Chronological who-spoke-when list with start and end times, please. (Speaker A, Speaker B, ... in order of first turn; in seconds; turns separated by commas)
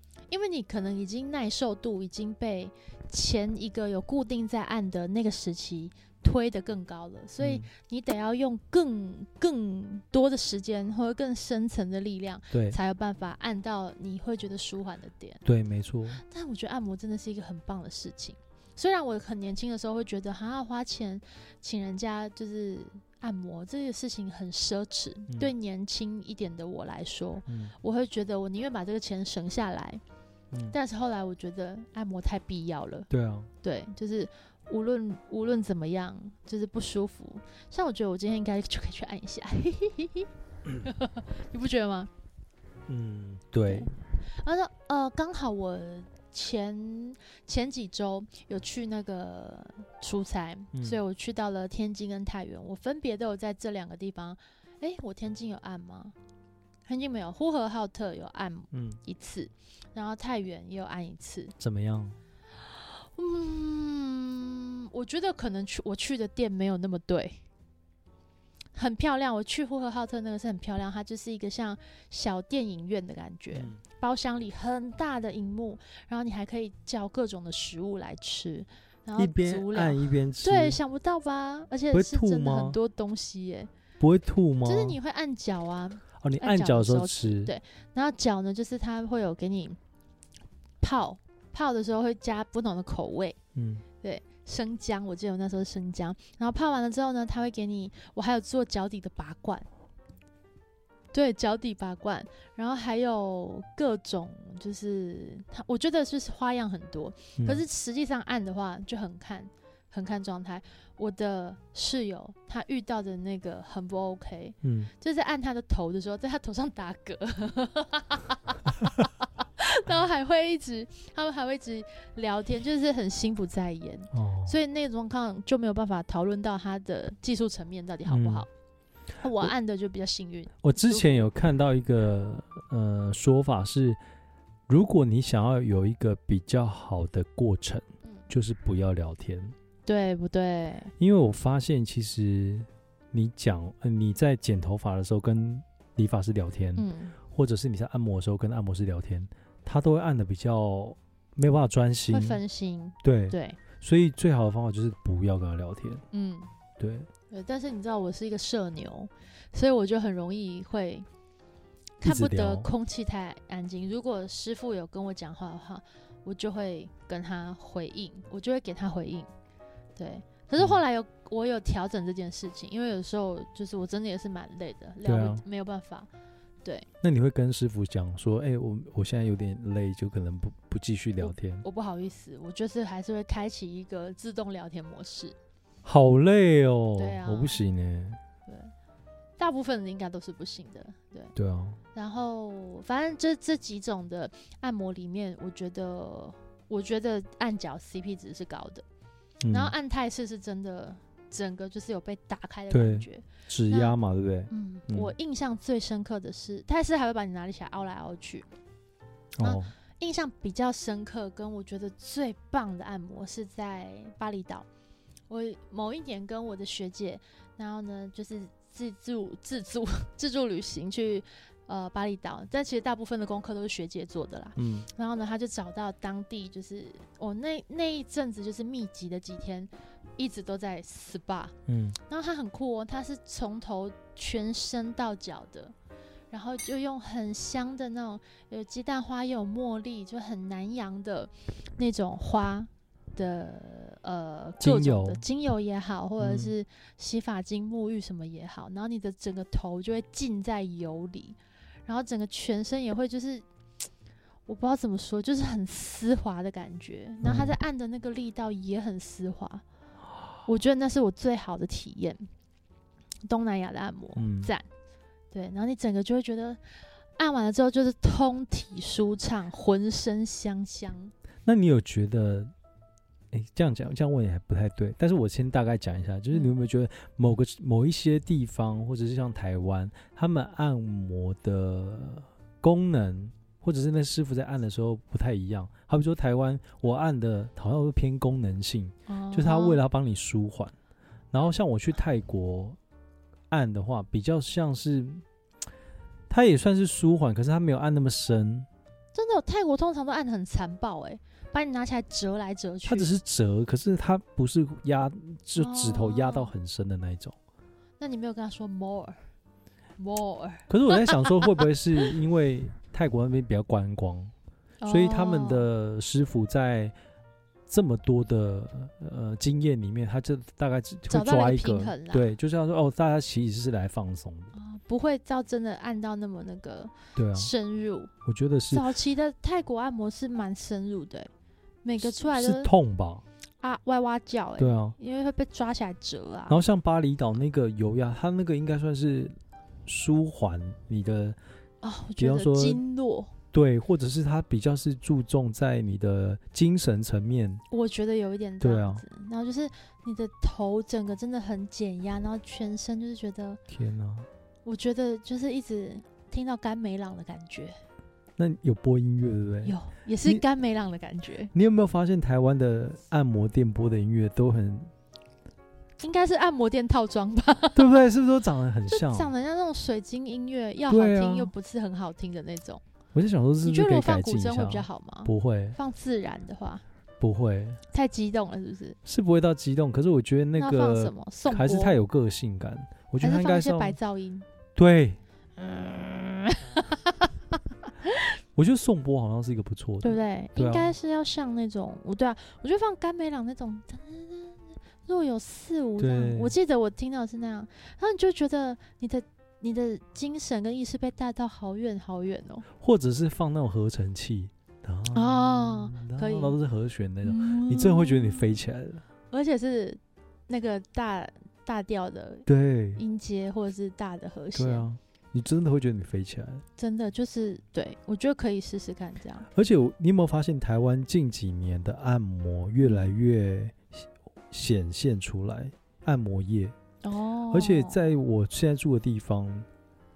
Speaker A: 0.3-15.4, Speaker B: 7.4-7.7, Speaker B: 12.5-12.8, Speaker B: 15.4-16.2, Speaker A: 16.1-30.0, Speaker B: 27.5-27.8, Speaker B: 30.5-30.8, Speaker A: 30.7-33.1, Speaker B: 33.1-33.5, Speaker A: 33.6-42.1, Speaker B: 42.9-43.9, Speaker A: 43.7-56.1, Speaker B: 50.7-51.0, Speaker A: 56.9-61.5, Speaker B: 58.7-59.0, Speaker B: 61.6-62.2, Speaker A: 62.6-67.4, Speaker A: 68.8-83.7, Speaker B: 73.5-73.8, Speaker B: 79.2-80.8, Speaker B: 81.9-82.8, Speaker B: 84.0-85.0, Speaker A: 84.7-89.8, Speaker B: 86.2-87.5, Speaker A: 90.8-93.4, Speaker B: 93.5-93.8, Speaker A: 94.0-99.7, Speaker A: 101.1-128.5, Speaker B: 107.4-107.6, Speaker B: 114.6-114.9, Speaker B: 124.1-124.6, Speaker B: 128.1-128.5, Speaker A: 129.2-131.3, Speaker B: 130.6-134.0, Speaker B: 134.7-139.6, Speaker A: 139.9-140.9, Speaker B: 141.0-152.4, Speaker A: 146.8-147.2, Speaker A: 152.1-153.6, Speaker B: 153.0-156.0, Speaker A: 156.1-156.5, Speaker B: 156.8-157.1, Speaker A: 157.3-161.1, Speaker B: 162.0-162.7, Speaker A: 162.0-169.3, Speaker A: 170.0-176.1, Speaker B: 175.0-175.4, Speaker B: 177.0-181.7, Speaker A: 181.2-185.4, Speaker B: 185.8-188.2, Speaker A: 187.0-187.6, Speaker A: 188.5-188.7, Speaker A: 189.4-191.3, Speaker B: 191.4-191.8, Speaker A: 191.9-198.8, Speaker B: 199.4-199.7, Speaker A: 199.5-204.0, Speaker B: 202.7-205.1, Speaker A: 204.5-208.5, Speaker B: 209.4-209.7, Speaker A: 209.4-214.7, Speaker A: 215.3-231.6, Speaker B: 224.6-224.9, Speaker B: 231.7-232.0, Speaker A: 232.1-235.7, Speaker A: 236.3-253.4, Speaker B: 244.6-245.2, Speaker B: 246.2-246.6, Speaker A: 254.5-259.6, Speaker B: 257.2-257.6, Speaker A: 260.5-262.2, Speaker A: 263.3-264.6, Speaker B: 264.2-264.5, Speaker A: 265.3-266.6, Speaker A: 267.2-271.1, Speaker B: 271.4-272.5, Speaker B: 273.3-290.7, Speaker A: 289.1-289.8, Speaker B: 291.3-292.8, Speaker B: 293.5-295.2, Speaker B: 296.3-298.7, Speaker A: 299.1-303.2, Speaker B: 302.9-307.4, Speaker A: 305.6-306.5, Speaker A: 308.0-309.2, Speaker A: 310.0-311.5, Speaker B: 310.7-314.3, Speaker A: 314.8-315.7, Speaker B: 314.9-316.9, Speaker B: 317.7-324.5, Speaker A: 321.1-322.2, Speaker A: 324.5-328.1, Speaker B: 327.2-327.5, Speaker B: 328.3-328.9, Speaker A: 328.7-331.3, Speaker A: 331.8-332.7, Speaker B: 332.0-333.2, Speaker A: 333.6-336.6, Speaker B: 334.6-335.0, Speaker B: 336.5-339.4, Speaker B: 339.9-341.4, Speaker A: 341.8-343.3, Speaker B: 342.2-342.8, Speaker B: 343.5-347.6, Speaker A: 347.7-353.6, Speaker B: 348.6-349.1, Speaker B: 353.7-354.3, Speaker A: 354.6-357.8, Speaker B: 358.4-360.4, Speaker A: 359.6-361.5, Speaker B: 361.5-364.9, Speaker A: 366.0-368.0, Speaker B: 367.8-369.3, Speaker A: 368.9-372.8, Speaker B: 370.9-371.5, Speaker B: 373.1-375.8, Speaker A: 373.6-376.8, Speaker B: 377.2-377.8, Speaker A: 377.9-379.0, Speaker B: 379.1-384.0, Speaker A: 380.6-382.0, Speaker A: 383.2-384.5, Speaker B: 384.8-385.2, Speaker A: 385.6-387.3, Speaker B: 388.6-390.9, Speaker A: 390.0-402.7, Speaker B: 396.0-396.6, Speaker B: 402.8-409.0, Speaker A: 405.1-406.6, Speaker A: 407.2-408.5, Speaker A: 409.3-414.9, Speaker B: 412.5-413.0, Speaker B: 414.5-416.6, Speaker A: 416.8-419.5, Speaker B: 419.5-426.8, Speaker A: 422.8-423.1, Speaker A: 427.0-428.0, Speaker B: 427.5-429.7